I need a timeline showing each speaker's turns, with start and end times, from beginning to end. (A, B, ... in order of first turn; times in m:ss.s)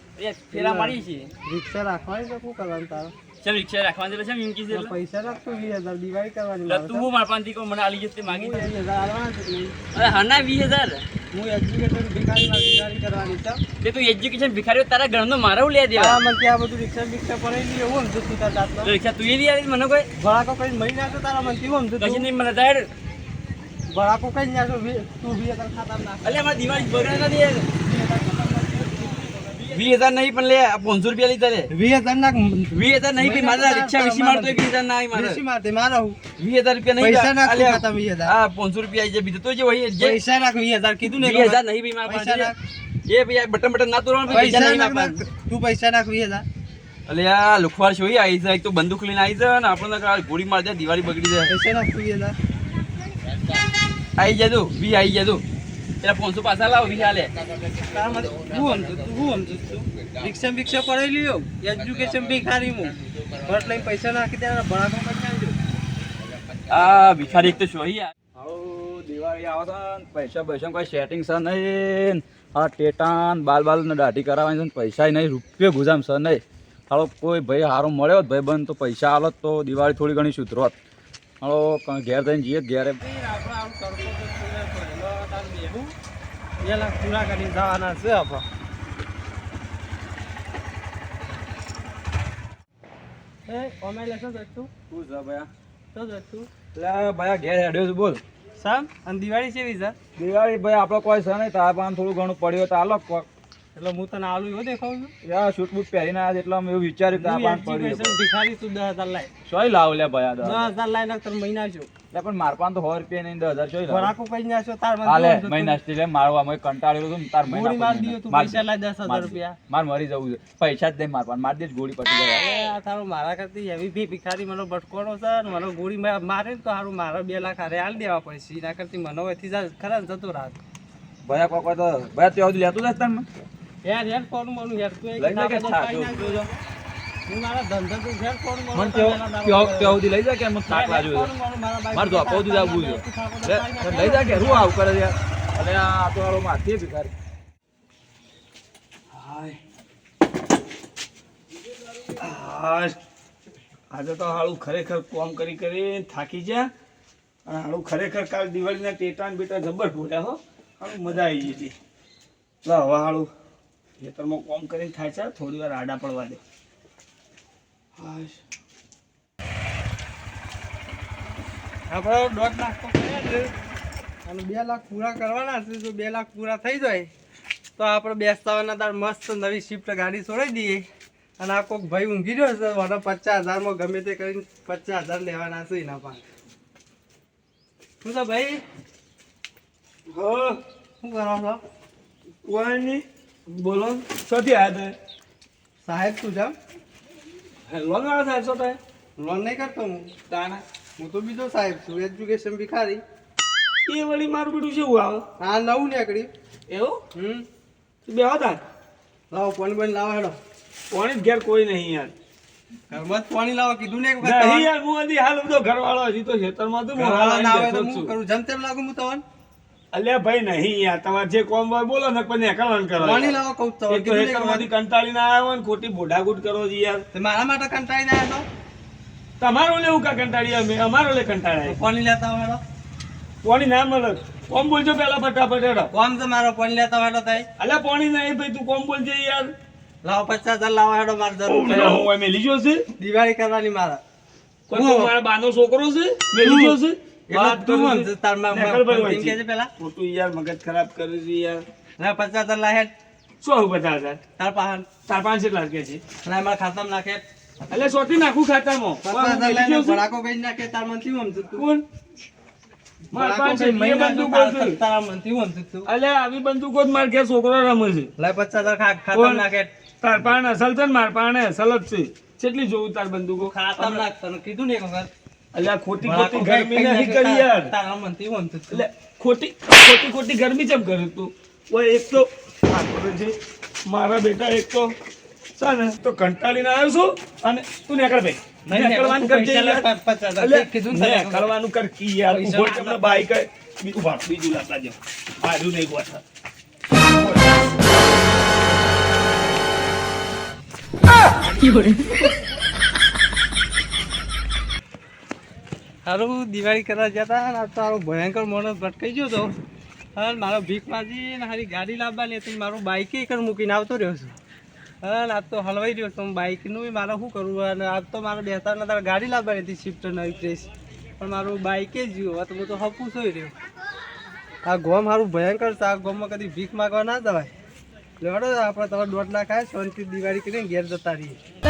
0:00.2-0:01.3 A
0:00.5-0:03.1 B
0:03.4-0:04.9 A
0:04.7-0:07.1 B
0:06.7-0:08.7 A
0:08.3-0:09.8 B
0:09.9-0:11.0 A
0:11.3-0:13.6 B
0:13.8-0:16.2 A
0:16.0-0:18.9 B
0:18.8-0:20.1 A
0:20.2-0:22.3 B
0:22.0-0:22.9 A
0:23.9-0:29.8 B
0:26.2-0:27.7 A
0:29.7-0:31.7 A
0:31.7-0:36.2 B
0:32.7-0:35.4 A
0:36.4-0:40.2 A
0:37.0-0:38.3 B
0:40.0-0:42.6 B
0:41.1-0:42.5 A
0:43.1-0:45.2 A
0:44.3-0:46.4 B
0:47.1-0:51.5 A
0:51.5-0:52.3 B
0:54.2-0:55.4 A
0:56.0-0:57.3 A
0:57.8-1:05.6 B
1:06.7-1:08.1 A
1:08.3-1:20.8 C
1:21.4-1:23.0 C
1:23.0-1:25.9 B
1:26.6-1:28.4 B
1:33.4-1:34.7 B
1:34.9-1:35.5 C
1:35.9-1:36.5 B
1:36.7-1:38.2 C
1:38.6-1:40.0 B
1:40.2-1:43.3 C
1:43.7-1:45.1 B
1:45.2-1:48.2 C
1:47.1-1:49.3 B
1:49.4-1:50.7 C
1:50.4-1:51.9 B
1:52.1-1:54.1 C
1:53.9-1:55.8 B
1:55.0-2:02.7 C
1:57.5-1:59.6 B
2:02.3-2:10.6 B
2:11.2-2:13.2 C
2:13.8-2:16.6 B
2:15.2-2:16.5 C
2:17.3-2:20.0 B
2:18.7-2:21.3 C
2:20.7-2:24.7 B
2:21.9-2:27.1 C
2:29.1-2:29.6 D
2:32.1-2:33.0 D
2:33.9-2:36.7 D
2:37.4-2:41.7 D
2:42.6-2:43.3 D
2:44.0-2:46.4 D
2:48.0-2:48.4 D
2:51.9-2:53.5 B
2:54.2-2:57.1 B
2:57.8-3:00.8 B
3:01.4-3:06.2 B
3:08.0-3:08.6 B
3:10.1-3:10.6 D
3:11.0-3:11.6 B
3:12.4-3:15.0 D
3:15.8-3:16.6 B
3:17.7-3:18.8 D
3:19.2-3:20.1 B
3:20.3-3:20.6 D
3:21.0-3:23.0 B
3:23.8-3:25.2 D
3:25.4-3:26.3 B
3:26.7-3:27.0 D
3:27.1-3:27.4 B
3:28.0-3:28.6 D
3:29.3-3:30.4 B
3:30.9-3:32.1 D
3:32.9-3:34.7 B
3:34.2-3:38.1 D
3:36.9-3:39.2 B
3:39.9-3:47.0 D
3:43.0-3:44.7 B
3:47.1-3:48.4 B
3:49.4-3:51.8 D
3:51.6-3:52.6 B
3:53.4-3:55.9 D
3:55.9-3:57.5 B
3:57.6-3:59.5 D
4:00.0-4:02.0 B
4:01.5-4:02.8 D
4:03.0-4:04.0 B
4:04.7-4:11.6 D
4:04.7-4:05.1 B
4:06.4-4:06.8 B
4:07.3-4:09.7 B
4:12.0-4:12.9 B
4:13.4-4:14.2 D
4:14.4-4:14.9 B
4:15.0-4:16.0 D
4:16.2-4:17.2 B
4:17.7-4:20.0 D
4:19.0-4:21.7 B
4:21.6-4:21.8 D
4:23.1-4:25.9 B
4:23.1-4:24.8 D
4:25.8-4:28.1 D
4:28.2-4:29.7 B
4:29.1-4:29.4 D
4:30.0-4:34.0 D
4:33.4-4:35.1 B
4:35.5-4:37.7 D
4:36.0-4:38.9 B
4:38.7-4:43.3 D
4:43.9-4:44.9 D
4:45.6-4:56.2 D
4:48.6-4:51.5 B
4:52.3-4:53.2 B
5:01.4-5:02.3 A
5:06.0-5:09.5 B
5:10.2-5:14.4 B
5:15.0-5:23.5 B
5:24.6-5:27.5 B
5:28.2-5:31.4 B